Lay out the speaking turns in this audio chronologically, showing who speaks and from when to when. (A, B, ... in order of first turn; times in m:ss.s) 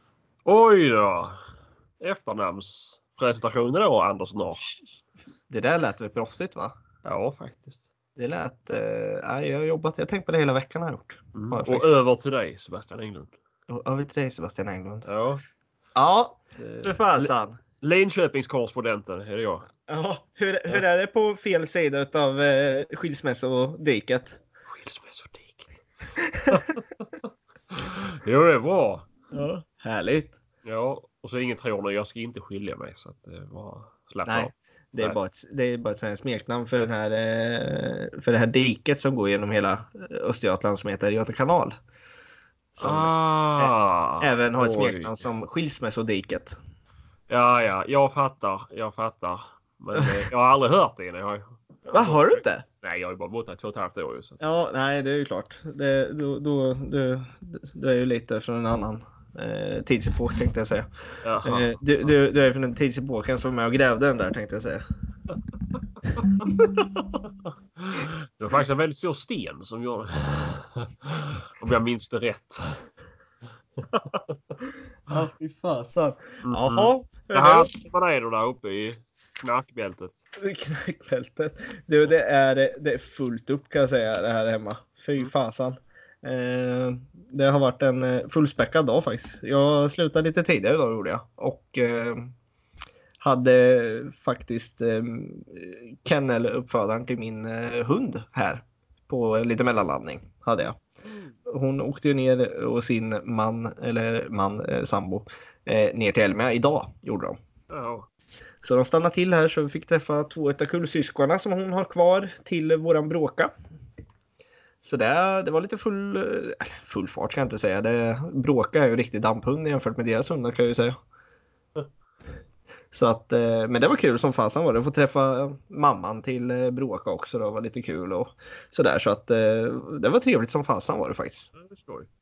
0:00.4-0:01.4 A
0:02.0-0:04.7 A
0:05.5-0:06.7 B
0:07.0-0:07.9 A
0:08.2-0:12.0 B
0:11.3-0:13.3 A
0:13.7-0:15.1 B
0:15.0-0:15.4 A
0:15.9-0:17.6 B
0:16.6-0:19.7 A
0:19.9-0:24.4 B
0:24.7-0:25.8 A
0:26.2-0:26.6 B
0:26.5-0:29.1 A
0:29.3-0:30.4 B
0:30.6-0:35.2 A
0:34.2-0:41.7 B
0:42.8-0:45.2 A
0:42.8-0:46.6 B
0:47.3-0:54.4 A
0:51.9-0:52.6 B
0:54.4-1:00.9 B
1:01.2-1:01.8 A
1:01.4-1:04.8 B
1:06.2-1:06.4 A
1:06.2-1:07.2 B
1:07.8-1:12.8 A
1:13.8-1:14.3 A
1:15.1-1:17.7 B
1:16.4-1:20.2 A
1:20.4-1:32.3 B
1:33.2-1:40.8 B
1:41.0-1:41.3 A
1:41.4-1:47.4 B
1:47.7-1:48.1 A
1:48.6-1:53.5 B
1:54.8-2:01.0 B
2:02.9-2:11.5 B
2:11.5-2:12.1 A